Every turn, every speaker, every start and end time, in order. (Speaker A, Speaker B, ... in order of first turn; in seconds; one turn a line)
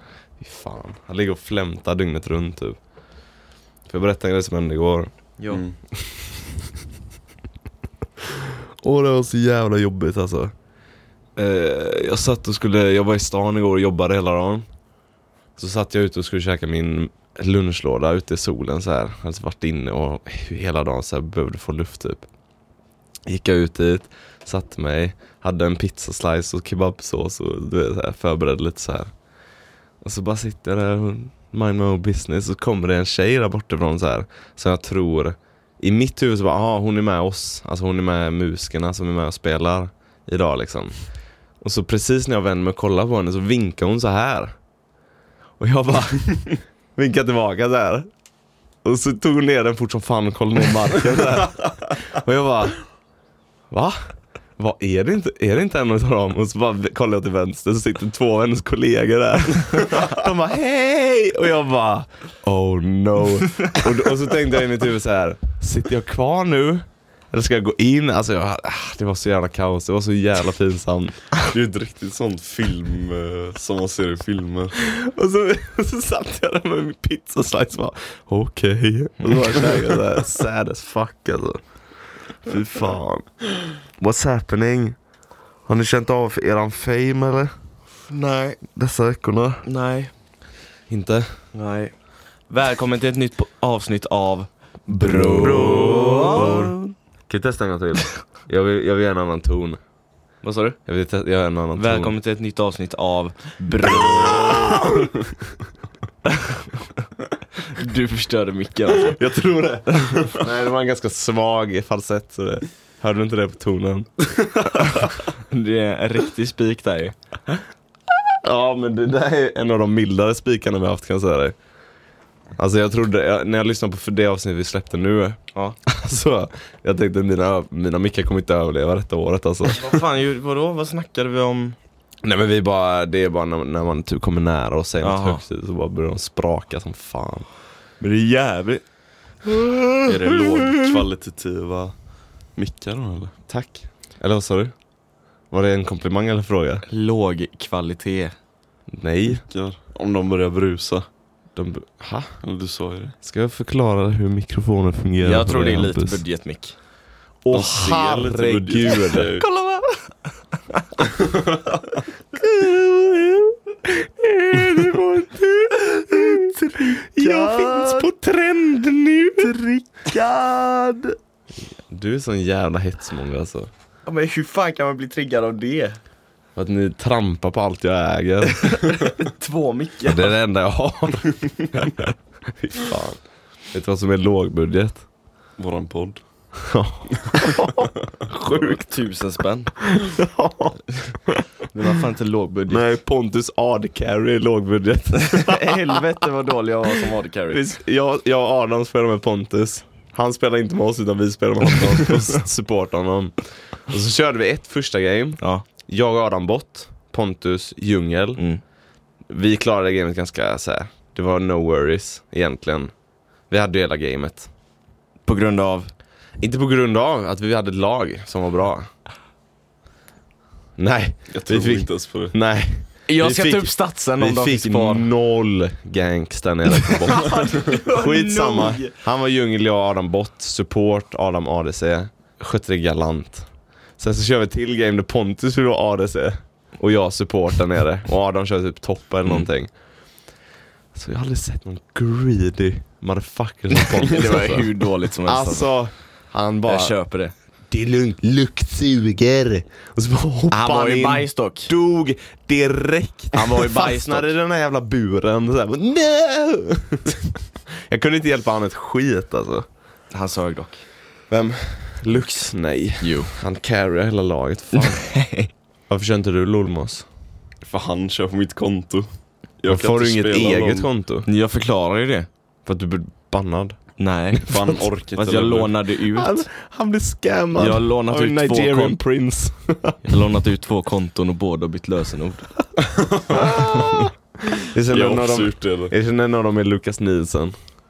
Speaker A: 0.4-2.8
Speaker A: 3.9-5.1
Speaker B: 5.5-5.7
Speaker A: 6.0-6.3
Speaker A: 8.3-10.5
Speaker A: 11.4-14.7
Speaker A: 15.6-22.2
Speaker A: 23.2-29.1
Speaker A: 30.0-40.9
Speaker A: 41.6-44.5
Speaker A: 45.6-48.1
Speaker A: 48.8-52.8
Speaker A: 53.7-54.0
Speaker A: 54.6-71.2
Speaker B: 71.4-74.8
Speaker A: 74.8-81.6
Speaker A: 82.4-83.3
Speaker A: 84.0-85.0
Speaker A: 85.7-87.5
Speaker C: 88.1-88.6
Speaker A: 88.7-89.6
Speaker C: 89.6-90.1
Speaker A: 90.9-91.3
Speaker C: 91.5-91.9
Speaker C: 92.5-96.8
Speaker A: 95.0-96.7
Speaker B: 95.5-96.0
Speaker A: 97.3-99.8
Speaker C: 100.4-100.8
Speaker A: 100.8-102.1
Speaker C: 101.8-104.8
Speaker A: 104.0-105.2
Speaker C: 106.3-106.9
Speaker C: 107.6-109.2
Speaker A: 109.0-115.2
Speaker C: 114.8-117.2
Speaker A: 118.4-121.5
Speaker A: 122.6-130.0
Speaker C: 129.7-131.8
Speaker A: 132.2-137.4
Speaker C: 135.0-135.4
Speaker C: 138.0-138.8
Speaker C: 139.4-140.8
Speaker B: 140.0-141.9
Speaker B: 142.6-143.3
Speaker A: 143.5-144.7
Speaker A: 145.5-146.8
Speaker C: 146.9-148.3
Speaker A: 148.9-149.4
Speaker B: 149.3-151.1
Speaker A: 151.6-152.3
Speaker B: 152.4-153.2
Speaker A: 153.2-156.2
Speaker C: 155.2-156.8
Speaker A: 157.4-159.3
Speaker B: 157.5-159.4
Speaker C: 159.3-160.1
Speaker C: 160.7-161.0
Speaker B: 161.2-161.7
Speaker C: 162.3-163.5
Speaker A: 164.2-166.5
Speaker C: 164.5-165.0
Speaker C: 165.9-168.1
Speaker A: 167.1-169.6
Speaker C: 169.3-171.2
Speaker A: 171.9-173.7
Speaker C: 174.1-176.0
Speaker A: 176.6-178.9
Speaker C: 178.5-180.3
Speaker A: 180.1-183.2
Speaker A: 183.7-185.0
Speaker B: 185.6-186.2
Speaker A: 186.6-188.8
Speaker B: 187.2-187.6
Speaker C: 188.4-189.7
Speaker A: 189.8-191.4
Speaker C: 191.7-192.8
Speaker A: 192.7-196.0
Speaker C: 195.2-197.6
Speaker A: 197.5-203.3
Speaker A: 203.9-208.4
Speaker A: 209.3-212.9
Speaker A: 213.5-214.5
Speaker C: 215.2-215.9
Speaker A: 216.4-218.9
Speaker A: 220.8-233.5
Speaker B: 221.3-222.3
Speaker C: 223.1-225.1
Speaker C: 226.9-228.9
Speaker A: 234.0-239.7
Speaker A: 240.9-244.7
Speaker C: 243.7-245.7
Speaker A: 245.2-246.9
Speaker C: 246.7-247.3
Speaker A: 247.7-259.6
Speaker C: 250.5-251.7
Speaker C: 253.3-254.3
Speaker C: 260.1-260.8
Speaker A: 261.3-265.0
Speaker C: 263.0-263.3
Speaker C: 264.7-265.5
Speaker A: 265.9-267.1
Speaker B: 267.6-269.1
Speaker B: 269.6-270.9
Speaker A: 269.7-271.3
Speaker C: 271.2-272.3
Speaker A: 272.6-273.8
Speaker C: 274.0-274.5
Speaker B: 274.5-275.8
Speaker A: 274.5-274.8
Speaker C: 275.1-276.4
Speaker A: 276.1-280.2
Speaker C: 277.6-279.0
Speaker C: 280.0-282.5
Speaker B: 282.9-283.9
Speaker A: 283.3-287.6
Speaker B: 284.9-285.9